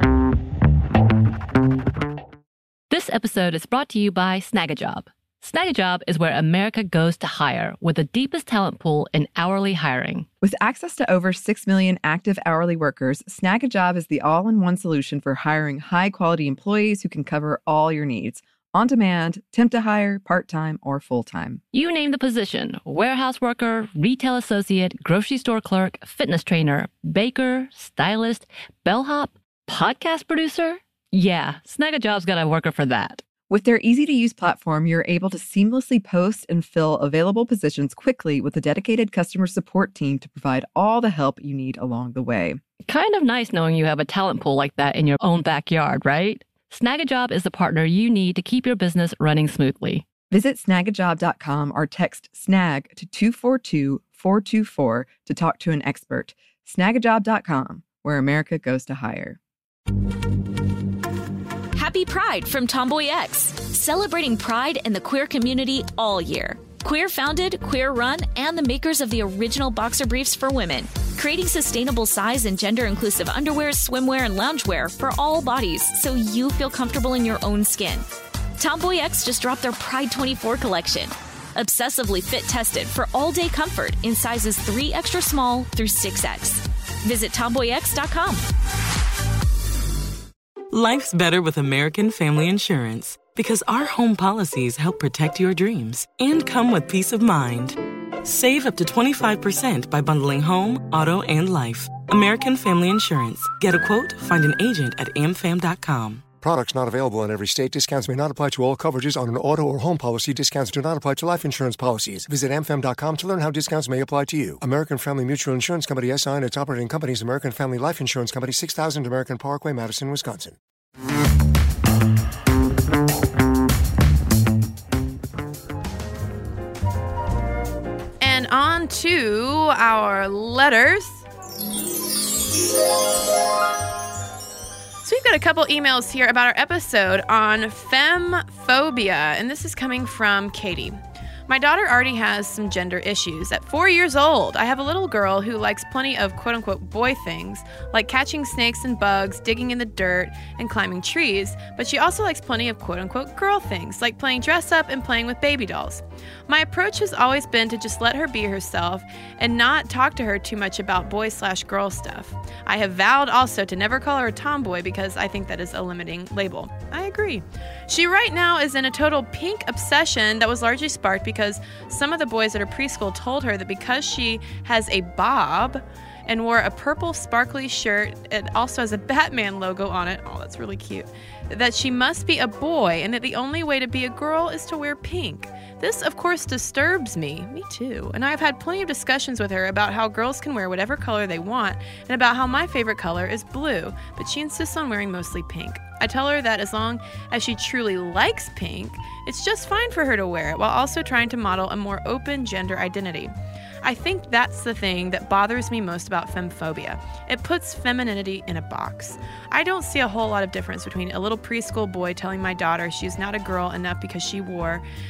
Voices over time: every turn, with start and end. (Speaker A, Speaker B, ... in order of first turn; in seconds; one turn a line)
Speaker A: 2.9-10.3
Speaker B: 10.4-21.6
Speaker A: 21.7-33.2
Speaker B: 33.5-42.6
Speaker A: 42.9-50.0
Speaker B: 50.3-59.4
Speaker C: 61.7-78.0
Speaker C: 78.6-88.4
Speaker D: 90.7-106.2
Speaker E: 106.4-120.6
Speaker F: 128.2-131.2
Speaker F: 135.0-214.8